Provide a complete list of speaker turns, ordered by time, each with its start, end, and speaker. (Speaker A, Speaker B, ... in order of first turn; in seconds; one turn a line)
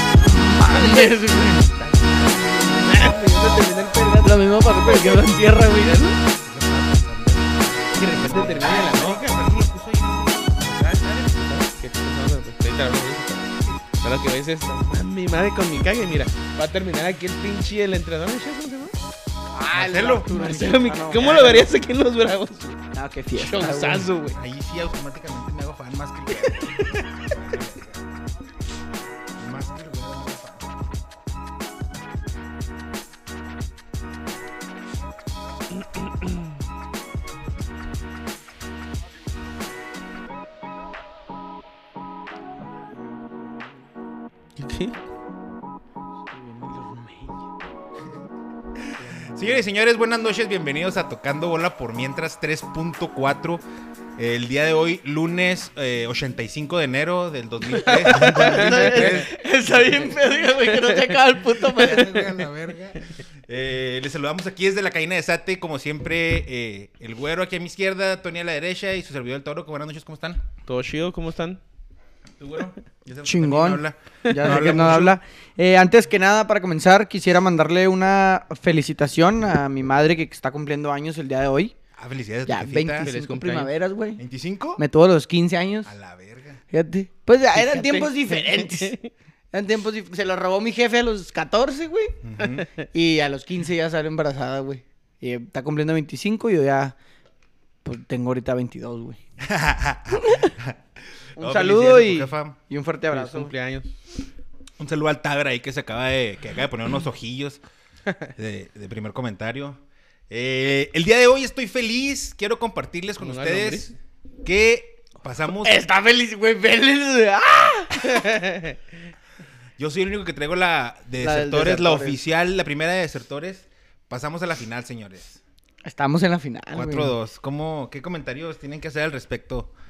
Speaker A: 0.2-1.7
Speaker B: 0.7-6.2
Speaker A: 4.2-6.1
Speaker C: 6.2-11.0
Speaker B: 7.9-9.6
Speaker B: 10.6-18.9
Speaker A: 19.5-21.4
Speaker C: 19.7-20.3
Speaker B: 20.3-22.8
Speaker C: 21.1-21.7
Speaker A: 22.9-24.1
Speaker B: 23.4-24.4
Speaker C: 24.3-28.1
Speaker B: 26.4-27.0
Speaker C: 29.4-30.9
Speaker A: 43.0-43.7
Speaker B: 44.6-44.9
Speaker A: 46.3-47.5
Speaker C: 48.8-53.6
Speaker A: 49.0-49.3
Speaker C: 54.2-60.1
Speaker A: 57.8-62.4
Speaker B: 57.9-59.2
Speaker B: 60.7-61.1
Speaker C: 61.7-70.4
Speaker B: 70.7-71.6
Speaker C: 72.4-75.2
Speaker A: 73.2-81.7
Speaker B: 74.3-74.8
Speaker C: 82.0-83.1
Speaker A: 82.5-84.2
Speaker B: 83.0-83.7
Speaker C: 84.2-84.8
Speaker A: 84.8-85.9
Speaker C: 85.9-86.6
Speaker A: 86.7-89.0
Speaker B: 87.5-89.1
Speaker A: 89.5-92.2
Speaker C: 92.2-92.7
Speaker A: 92.9-97.0
Speaker A: 97.8-99.2
Speaker C: 99.4-100.8
Speaker A: 100.1-100.5
Speaker C: 101.4-102.5
Speaker A: 101.4-103.5
Speaker B: 103.1-103.9
Speaker C: 104.8-107.6
Speaker C: 108.3-113.9
Speaker B: 113.2-113.9
Speaker C: 114.4-115.8
Speaker A: 115.6-118.3
Speaker B: 118.0-118.8
Speaker C: 119.8-125.4
Speaker A: 121.2-122.2
Speaker A: 125.8-127.1
Speaker C: 126.7-129.7